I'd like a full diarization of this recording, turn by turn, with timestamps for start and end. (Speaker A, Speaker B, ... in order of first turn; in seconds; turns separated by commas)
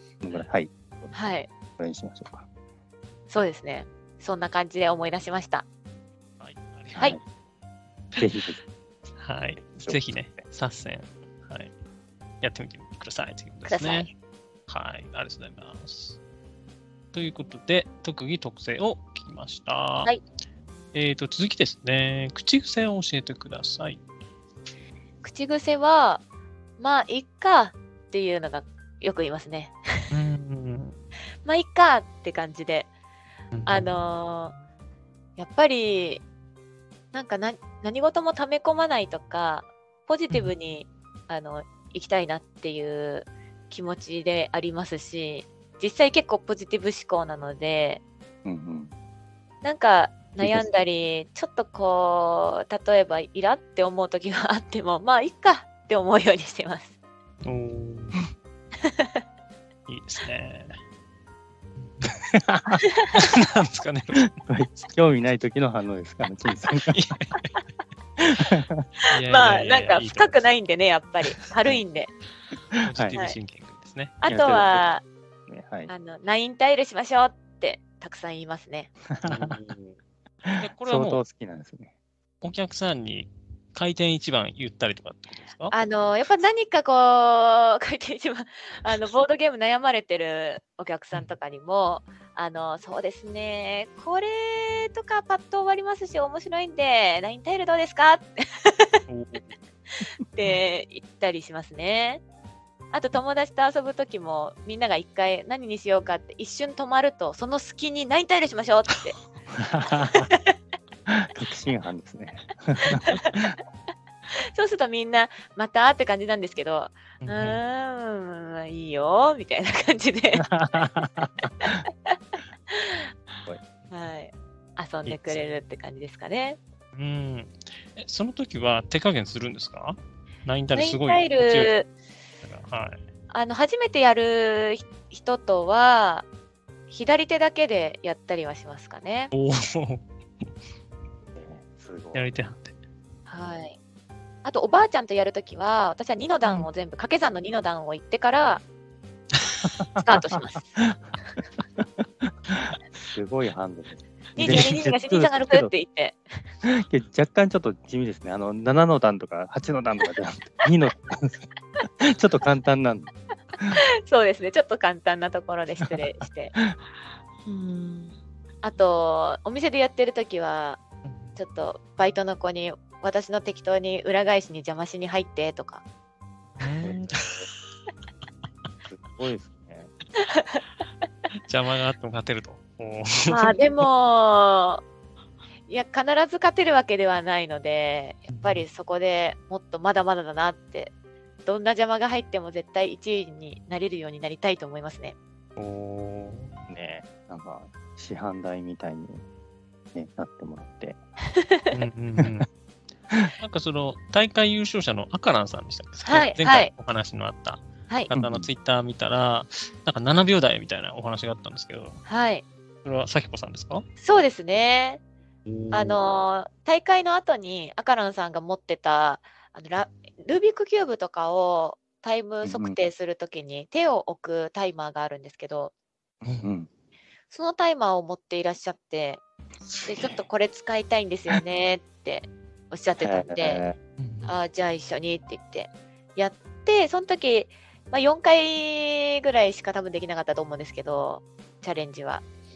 Speaker A: 0.2-1.1, Speaker B: 1.1-1.5, Speaker A: 1.8-2.5, Speaker B: 3.3-5.6, Speaker C: 6.4-7.1, Speaker A: 6.9-7.2, Speaker A: 8.2-8.6, Speaker C: 9.2-11.7, Speaker A: 9.7-10.4, Speaker C: 12.4-14.1, Speaker B: 13.6-14.1, Speaker C: 14.7-16.2, Speaker C: 17.1-20.1, Speaker C: 20.9-24.0, Speaker B: 25.2-26.2, Speaker B: 26.8-29.8, Speaker C: 30.1-31.0, Speaker B: 31.4-32.9, Speaker C: 33.5-33.9, Speaker B: 33.6-34.5, Speaker B: 35.4-36.2, Speaker B: 37.1-48.0, Speaker A: 48.4-48.9, Speaker B: 49.6-56.9, Speaker A: 50.4-50.6, Speaker C: 57.4-58.2, Speaker B: 58.8-59.2, Speaker C: 59.9-60.8, Speaker C: 61.8-62.1, Speaker A: 62.3-62.8, Speaker C: 63.1-64.4, Speaker A: 64.4-67.1, Speaker C: 66.9-67.4, Speaker A: 68.2-68.8, Speaker B: 69.1-72.1, Speaker C: 69.1-70.4, Speaker C: 72.8-74.2, Speaker A: 72.9-73.2, Speaker B: 74.2-75.0, Speaker A: 74.3-74.9, Speaker A: 75.5-75.9, Speaker B: 75.9-78.9, Speaker A: 79.1-79.6, Speaker C: 79.2-79.9, Speaker A: 80.5-81.9, Speaker C: 80.6-81.2, Speaker C: 82.4-85.7, Speaker B: 85.7-98.9, Speaker C: 99.1-99.5, Speaker B: 100.3-102.2, Speaker B: 102.9-109.2, Speaker A: 109.5-110.3, Speaker B: 110.2-110.5, Speaker A: 111.1-113.6, Speaker B: 113.0-113.2, Speaker B: 114.4-120.5, Speaker C: 117.2-117.6, Speaker A: 120.4-121.7, Speaker B: 121.6-122.1, Speaker B: 122.7-123.1, Speaker B: 123.9-126.6, Speaker C: 126.9-131.7, Speaker B: 130.7-131.9, Speaker C: 132.4-133.0, Speaker B: 133.3-136.3, Speaker B: 136.9-139.3, Speaker C: 139.3-140.0, Speaker A: 141.4-142.2, Speaker C: 142.1-142.8, Speaker B: 143.3-143.8, Speaker B: 144.4-148.6, Speaker B: 150.0-150.8, Speaker A: 150.0-151.0, Speaker A: 151.8-155.7, Speaker B: 154.4-156.2, Speaker C: 154.4-154.7, Speaker A: 156.6-163.8, Speaker B: 163.7-166.5, Speaker B: 168.6-170.8, Speaker C: 171.0-171.4, Speaker B: 171.4-175.8, Speaker C: 176.6-177.5, Speaker A: 176.8-177.5, Speaker A: 178.9-179.9, Speaker B: 180.2-180.6, Speaker C: 181.5-183.6, Speaker B: 183.3-184.8, Speaker B: 185.7-190.9, Speaker C: 188.3-188.6, Speaker B: 191.4-195.2, Speaker C: 195.6-196.6, Speaker A: 196.7-199.2, Speaker A: 199.9-201.0, Speaker B: 201.4-201.8, Speaker C: 201.7-202.5, Speaker C: 203.1-212.0, Speaker B: 206.0-206.7, Speaker A: 208.1-208.5, Speaker B: 212.1-212.4, Speaker C: 212.8-213.8, Speaker B: 214.0-215.0, Speaker C: 215.5-216.0, Speaker B: 215.7-225.7, Speaker A: 222.4-222.8, Speaker A: 226.3-226.7, Speaker B: 227.3-229.2, Speaker B: 229.8-233.6, Speaker A: 233.0-233.8, Speaker C: 234.0-234.3, Speaker B: 234.2-242.2